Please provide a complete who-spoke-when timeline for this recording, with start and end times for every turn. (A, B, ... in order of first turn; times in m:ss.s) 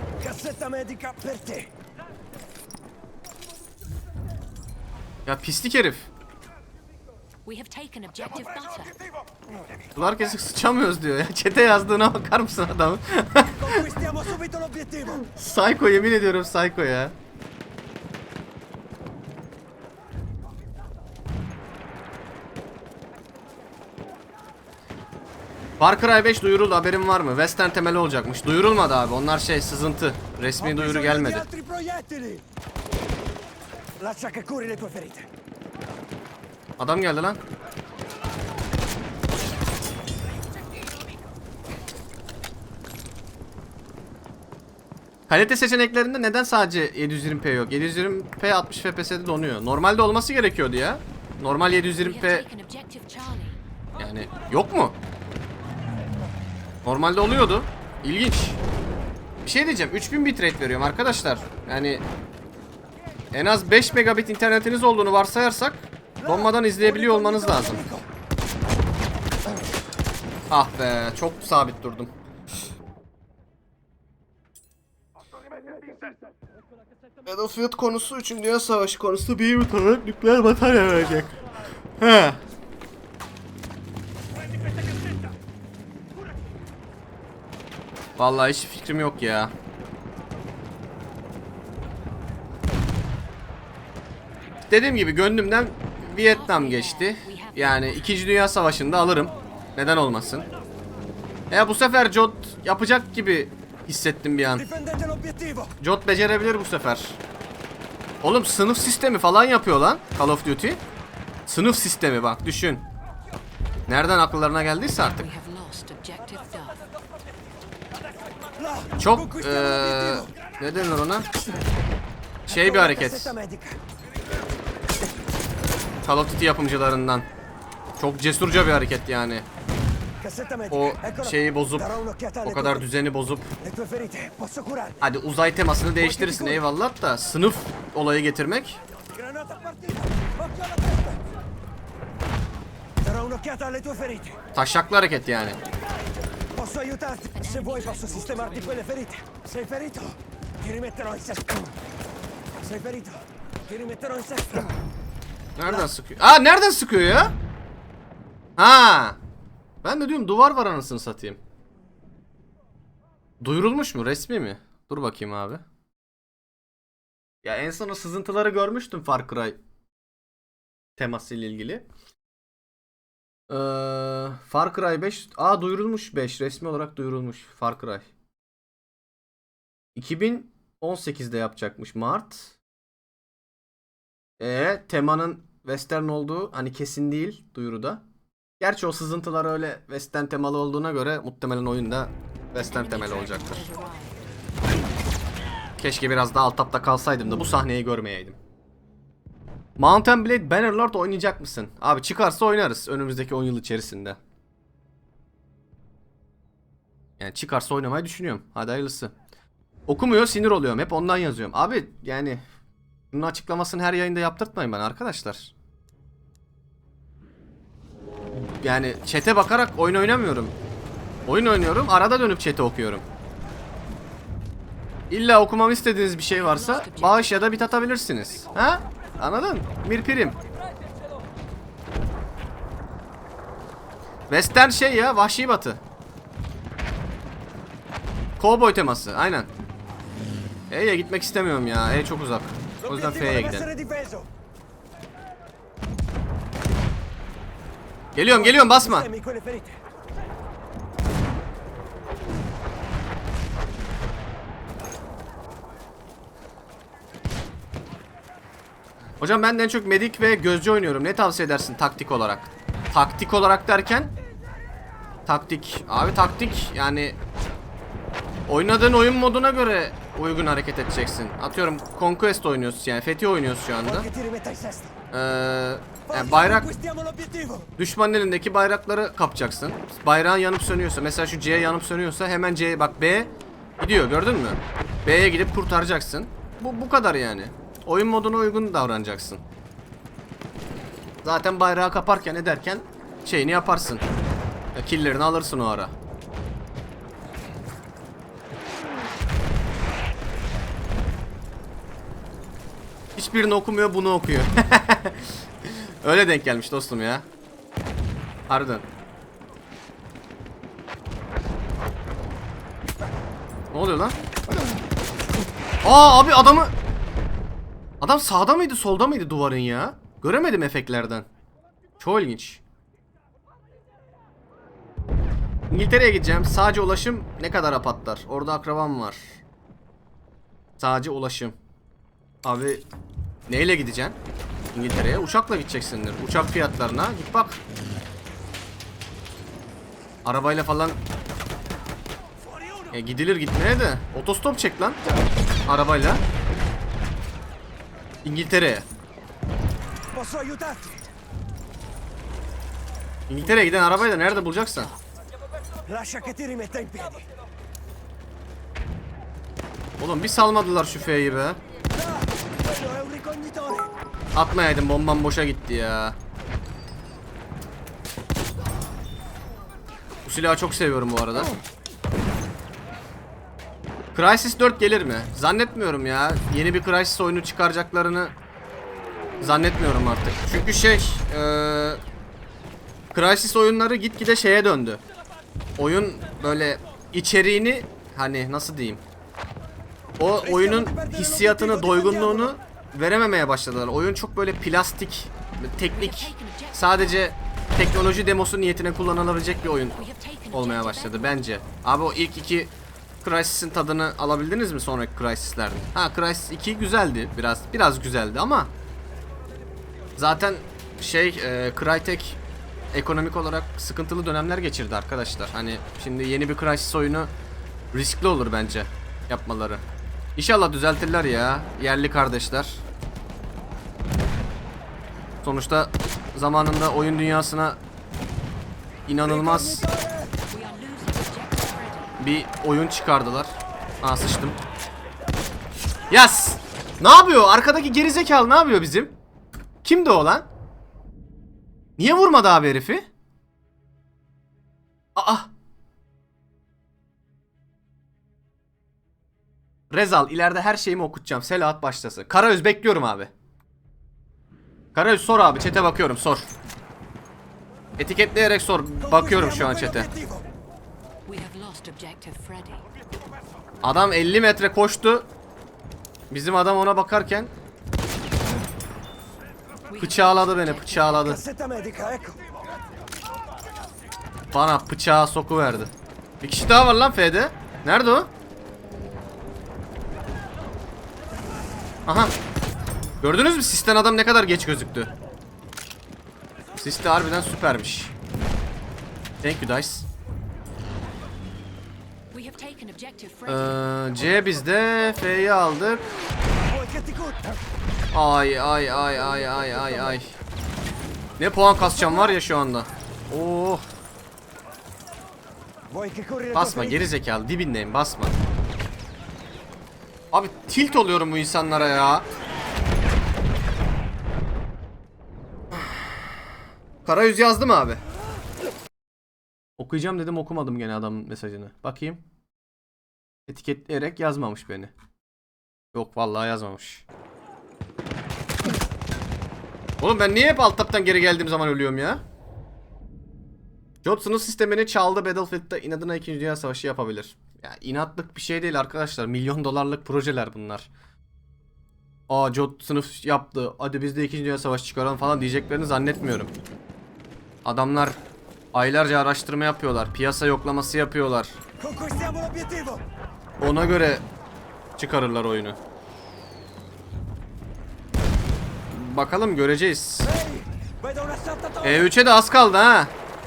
0:00.2-0:01.7 A
0:05.3-0:06.1 B
0:07.4-0:09.0 C
0:09.3-0:09.6 A
0:10.0-0:13.9 B
0:13.6-0:15.2 A
0:15.2-0:17.2 B
0:25.8-0:31.4 B
0:30.6-0:32.4 A
0:34.0-0:35.3 A
0:36.8-0:37.4 B
0:45.3-0:52.4 B
0:52.0-0:53.6 C
0:54.0-0:55.0 B
0:56.8-0:58.6 B
0:59.4-1:02.0 B
1:03.3-1:07.8 B
1:06.2-1:08.1 A
1:10.5-1:12.1 B
1:17.3-1:21.4 B
1:22.0-1:22.4 B
1:28.2-1:29.5 B
1:34.7-1:40.5 B
1:36.2-1:38.2 C
1:41.5-1:44.7 B
1:44.6-1:45.8 A
1:45.8-1:47.2 B
1:48.2-1:50.8 B
1:51.5-1:52.9 B
1:53.9-1:55.3 B
1:55.2-1:56.8 C
1:58.6-2:00.3 A
1:59.0-2:01.3 B
2:02.5-2:03.3 B
2:02.5-2:03.8 A
2:06.0-2:07.3 B
2:08.0-2:09.4 B
2:10.2-2:12.9 A
2:10.7-2:13.5 B
2:13.6-2:15.0 A
2:15.0-2:18.8 B
2:16.0-2:16.7 A
2:19.1-2:21.2 A
2:23.0-2:24.4 A
2:24.6-2:25.6 B
2:26.3-2:31.8 A
2:27.4-2:28.9 C
2:32.6-2:34.8 A
2:35.6-2:37.3 B
2:38.6-2:39.2 B
2:39.8-2:41.4 B
2:43.4-2:45.6 B
2:47.4-2:49.6 B
2:51.0-2:51.9 B
2:53.5-2:58.1 B
3:00.0-3:02.5 B
3:04.4-3:08.0 B
3:08.6-3:13.7 B
3:12.6-3:14.2 C
3:15.8-3:18.4 B
3:19.8-3:24.2 B
3:27.2-3:29.1 B
3:29.9-3:32.4 B
3:33.1-3:35.5 B
3:38.4-3:40.6 B
3:41.3-3:43.0 B
3:45.1-3:50.4 B
3:46.3-3:47.7 C
3:54.3-3:55.8 B
3:58.4-3:59.5 B
4:00.7-4:03.7 B
4:02.8-4:04.3 A
4:08.2-4:09.1 B
4:08.3-4:09.8 A
4:19.2-4:24.1 B
4:25.3-4:27.2 B
4:28.5-4:34.1 B
4:33.8-4:34.9 A
4:35.1-4:36.7 B
4:36.1-4:37.7 A
4:37.8-4:49.4 B
4:51.2-4:54.0 B
4:54.7-4:55.9 B
5:03.2-5:07.3 B
5:08.5-5:08.9 B
5:13.7-5:14.2 B
5:15.8-5:16.7 B
5:18.0-5:21.3 B
5:22.0-5:22.6 B
5:25.7-5:29.4 B
5:30.8-5:31.6 B
5:32.4-5:32.9 B
5:33.5-5:34.2 B
5:34.7-5:37.6 B
5:40.2-5:41.0 B
5:42.9-5:45.0 B
5:45.7-5:46.2 B
5:48.2-5:48.9 B
5:50.1-5:51.0 A
5:53.3-5:54.9 B
5:53.4-5:55.0 C
5:55.8-5:57.3 A
6:00.0-6:01.6 B
6:01.9-6:03.9 A
6:04.4-6:06.2 B
6:10.2-6:11.5 B
6:14.1-6:18.3 B
6:19.4-6:22.0 B
6:23.1-6:25.0 B
6:25.8-6:29.0 B
6:30.2-6:48.7 B
6:30.4-6:32.6 A
6:35.9-6:37.3 C
6:40.0-6:41.4 C
6:50.2-6:52.4 B
6:52.9-6:57.3 B
6:57.9-6:59.8 B
7:00.4-7:02.8 B
7:05.4-7:07.8 B
7:09.1-7:09.8 B
7:09.2-7:10.3 A
7:10.5-7:12.2 C
7:12.2-7:14.6 B
7:16.1-7:19.2 B
7:19.8-7:20.5 B
7:22.0-7:23.1 B
7:25.2-7:25.5 B
7:29.9-7:33.3 B
7:35.0-7:36.5 B
7:38.0-7:40.1 B
7:39.0-7:40.5 A
7:41.3-7:42.9 C
7:43.8-7:45.3 B
7:46.3-7:47.5 B
7:49.9-7:51.3 C
7:50.0-7:51.4 B
7:51.2-7:52.5 A
7:54.5-7:58.3 B
8:02.1-8:02.3 B
8:03.2-8:05.1 B
8:06.8-8:08.1 B
8:09.4-8:10.1 B
8:12.3-8:13.8 C
8:13.5-8:16.1 B
8:16.6-8:17.6 A
8:18.1-8:20.3 B
8:21.4-8:23.8 B
8:21.8-8:22.4 A
8:25.9-8:27.1 A
8:26.5-8:28.4 B
8:30.3-8:32.3 B
8:35.7-8:36.2 B
8:37.0-8:38.0 B
8:39.8-8:42.2 B
8:43.5-8:44.9 B
8:45.9-8:47.0 B
8:50.0-8:52.2 B
8:54.0-9:00.9 B
9:02.3-9:06.5 B
9:07.6-9:08.2 B
9:08.7-9:11.6 B
9:11.8-9:13.0 A
9:13.6-9:14.2 B
9:15.0-9:15.8 B
9:18.9-9:20.3 B
9:20.2-9:22.1 A
9:21.8-9:23.1 B